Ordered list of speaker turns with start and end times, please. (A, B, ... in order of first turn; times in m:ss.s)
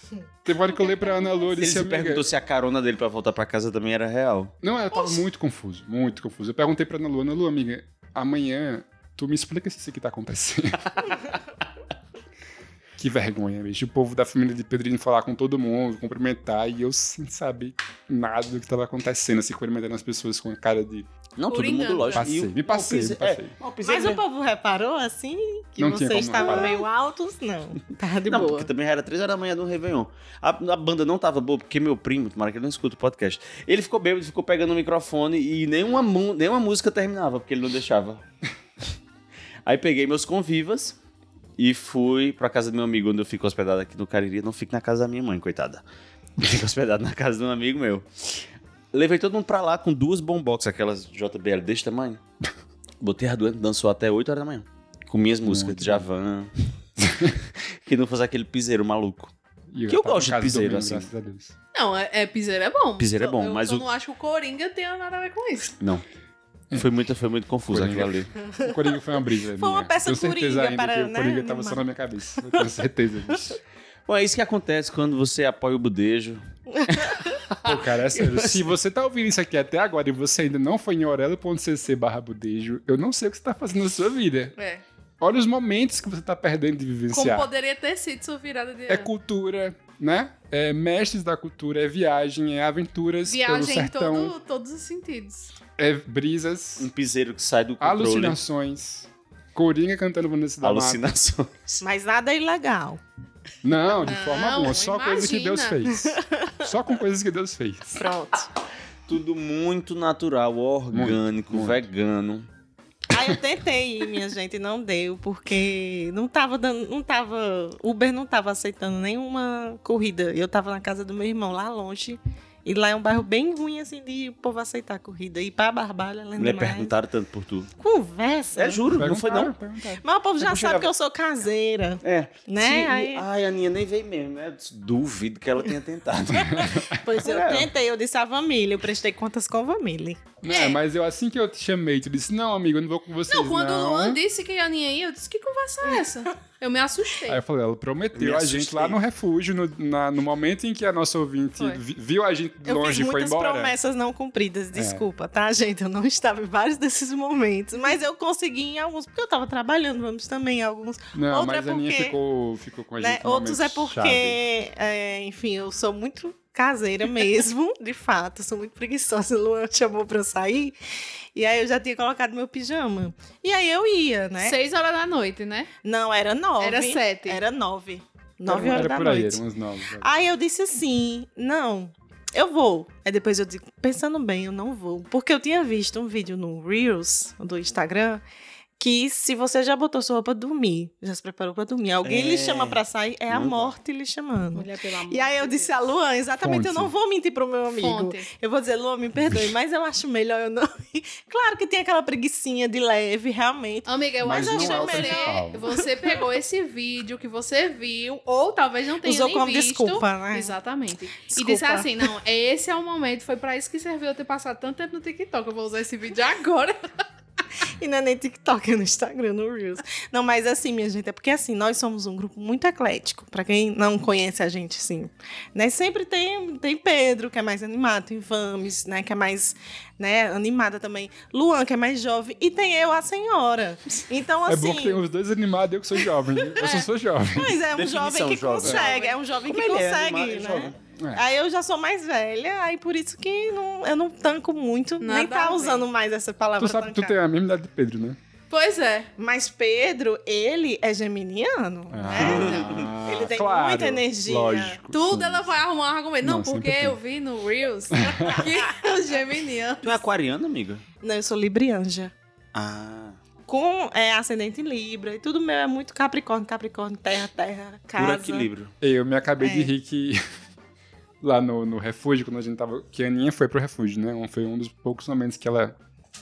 0:00.4-0:02.3 A
0:00.9-0:01.3 B
0:01.6-0:04.5 C
0:04.6-0:10.9 A
0:04.9-0:05.2 B
0:13.0-0:21.1 A
0:21.4-0:24.2 C
0:21.5-0:22.3 B
0:22.2-0:23.6 A
0:23.8-0:28.7 D
0:25.8-0:26.8 A
0:26.4-0:26.7 B
0:28.2-0:38.2 C
0:39.6-0:41.0 C
0:41.6-0:45.8 C
0:46.4-0:52.2 C
0:53.0-0:56.5 C
0:55.4-0:56.0 A
0:57.1-0:57.3 A
0:57.4-0:59.3 C
0:59.7-1:01.5 A
0:59.9-1:01.1 C
1:01.7-1:05.7 B
1:03.0-1:03.9 C
1:06.7-1:08.3 C
1:07.7-1:13.6 A
1:09.6-1:11.8 D
1:14.1-1:18.7 C
1:16.7-1:17.3 D
1:17.6-1:24.6 A
1:24.6-1:24.8 B
1:25.2-1:27.5 A
1:27.1-1:29.1 B
1:28.9-1:34.4 A
1:33.3-1:35.5 B
1:35.8-1:36.9 A
1:36.8-1:38.4 C
1:37.8-1:41.0 A
1:40.6-1:41.8 C
1:41.8-1:43.0 D
1:43.6-1:48.0 A
1:44.0-1:45.9 B
1:46.0-1:46.6 D
1:48.0-1:48.5 D
1:49.1-1:52.5 C
1:50.9-1:51.8 A
1:53.1-2:06.9 D
2:06.4-2:07.7 C
2:07.8-2:08.8 D
2:08.6-2:09.5 C
2:09.0-2:10.0 A
2:10.0-2:13.2 D
2:10.4-2:10.9 C
2:12.0-2:17.7 C
2:16.5-2:16.9 A
2:16.6-2:20.2 D
2:20.4-2:24.2 A
2:20.5-2:20.8 B
2:23.3-2:27.4 B
2:27.3-2:33.8 A
2:28.1-2:29.0 C
2:32.6-2:42.2 D
2:34.7-2:35.1 A
2:41.1-2:44.4 A
2:43.0-2:50.8 D
2:51.4-2:54.6 D
2:54.4-2:55.7 B
2:55.8-2:59.4 D
2:56.6-2:57.4 B
2:58.5-3:00.1 A
3:00.0-3:08.2 D
3:08.8-3:26.3 D
3:12.0-3:13.8 C
3:14.5-3:15.9 B
3:16.4-3:16.9 A
3:17.8-3:18.3 B
3:23.9-3:36.8 B
3:24.2-3:25.6 A
3:29.0-3:30.6 D
3:31.3-3:32.0 D
3:37.8-3:55.0 D
3:54.5-3:57.6 A
3:56.6-3:56.9 B
3:57.3-4:07.2 D
3:57.7-4:00.8 C
3:58.7-3:59.2 B
4:01.0-4:01.2 A
4:05.0-4:05.9 B
4:06.6-4:08.2 A
4:08.5-4:09.1 B
4:09.2-4:14.8 D
4:11.9-4:15.5 A
4:12.2-4:12.9 C
4:12.3-4:12.6 B
4:14.9-4:20.0 B
4:16.2-4:17.0 A
4:18.0-4:18.4 A
4:18.4-4:18.9 D
4:19.8-4:20.8 C
4:21.0-4:22.1 D
4:22.5-4:23.2 C
4:23.5-4:28.5 D
4:28.0-4:28.7 C
4:28.8-4:30.2 A
4:29.4-4:29.7 D
4:31.2-4:35.8 A